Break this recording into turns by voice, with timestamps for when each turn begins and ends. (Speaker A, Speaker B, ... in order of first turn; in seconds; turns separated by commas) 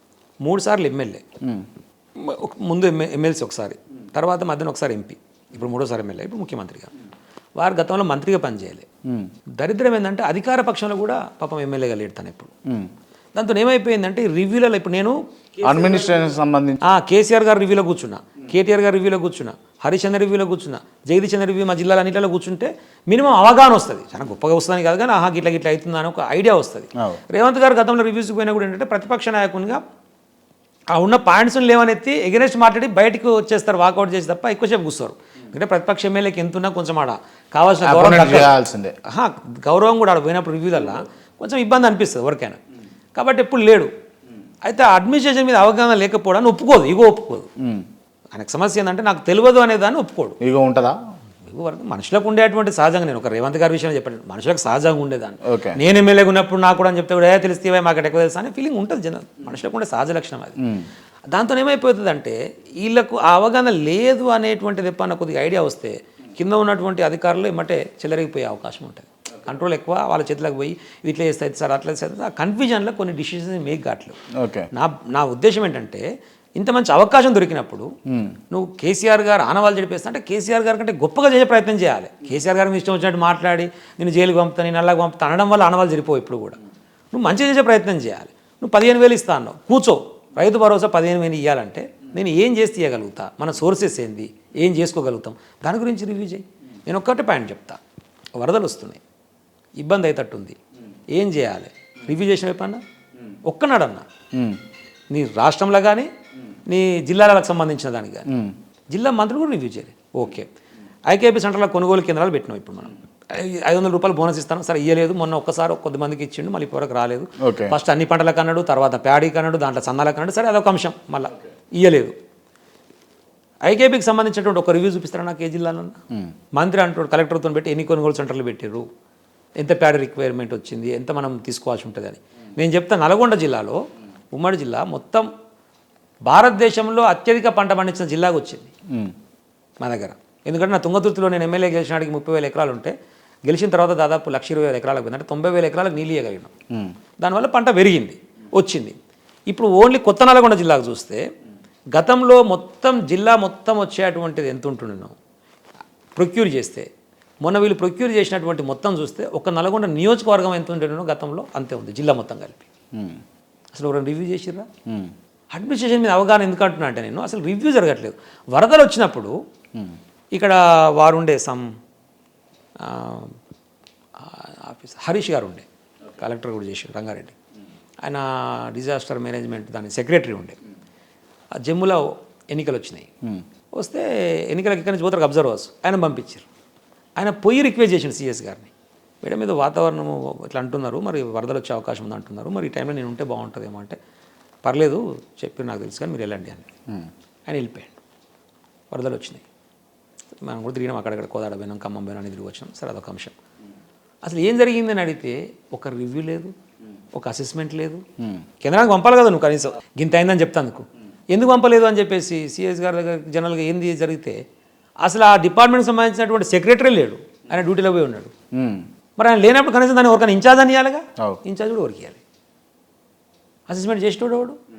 Speaker A: 0.4-1.2, Speaker A: 2.2-6.9, Speaker A: 7.6-8.8, Speaker A: 9.6-12.5, Speaker A: 13.3-16.3, Speaker B: 15.6-16.8, Speaker A: 16.8-29.8, Speaker A: 30.9-38.5, Speaker B: 37.8-38.9, Speaker A: 39.0-42.6, Speaker A: 43.1-43.9, Speaker A: 44.6-47.5, Speaker B: 47.6-47.9, Speaker A: 48.3-50.4, Speaker B: 50.4-51.0, Speaker A: 51.4-60.7, Speaker B: 55.4-55.8, Speaker B: 60.6-60.9, Speaker A: 61.3-74.2, Speaker B: 74.3-74.7, Speaker A: 74.7-76.0, Speaker A: 76.6-77.9, Speaker B: 78.1-78.4, Speaker A: 78.5-86.6, Speaker A: 87.1-97.8, Speaker A: 98.4-99.0, Speaker A: 99.8-100.6, Speaker A: 101.1-102.8, Speaker A: 103.5-104.0, Speaker B: 104.3-104.6, Speaker A: 105.1-106.1, Speaker A: 106.7-108.3, Speaker B: 108.3-108.5, Speaker A: 108.9-110.5, Speaker A: 111.1-122.1, Speaker B: 117.4-117.8, Speaker A: 123.6-126.0, Speaker A: 126.5-128.8, Speaker A: 129.6-135.3, Speaker A: 136.2-138.7, Speaker A: 139.8-142.9, Speaker A: 143.4-146.5, Speaker A: 147.2-148.9, Speaker A: 149.5-151.2, Speaker A: 151.9-155.1, Speaker A: 156.2-156.9, Speaker A: 157.4-162.7, Speaker B: 162.9-163.2, Speaker A: 163.7-164.7, Speaker B: 164.9-165.1, Speaker A: 165.5-169.3, Speaker A: 170.3-171.7, Speaker A: 172.8-173.3, Speaker A: 174.2-177.3, Speaker A: 178.0-180.6, Speaker A: 181.5-183.1, Speaker A: 183.8-186.4, Speaker A: 187.2-188.7, Speaker A: 189.2-194.0, Speaker A: 194.6-196.7, Speaker A: 197.5-197.9, Speaker A: 198.9-199.4, Speaker A: 200.4-203.3, Speaker A: 204.2-206.5, Speaker A: 207.1-208.0, Speaker A: 208.6-214.4, Speaker A: 215.0-218.3, Speaker B: 218.5-218.9, Speaker A: 219.2-222.2, Speaker A: 223.7-224.6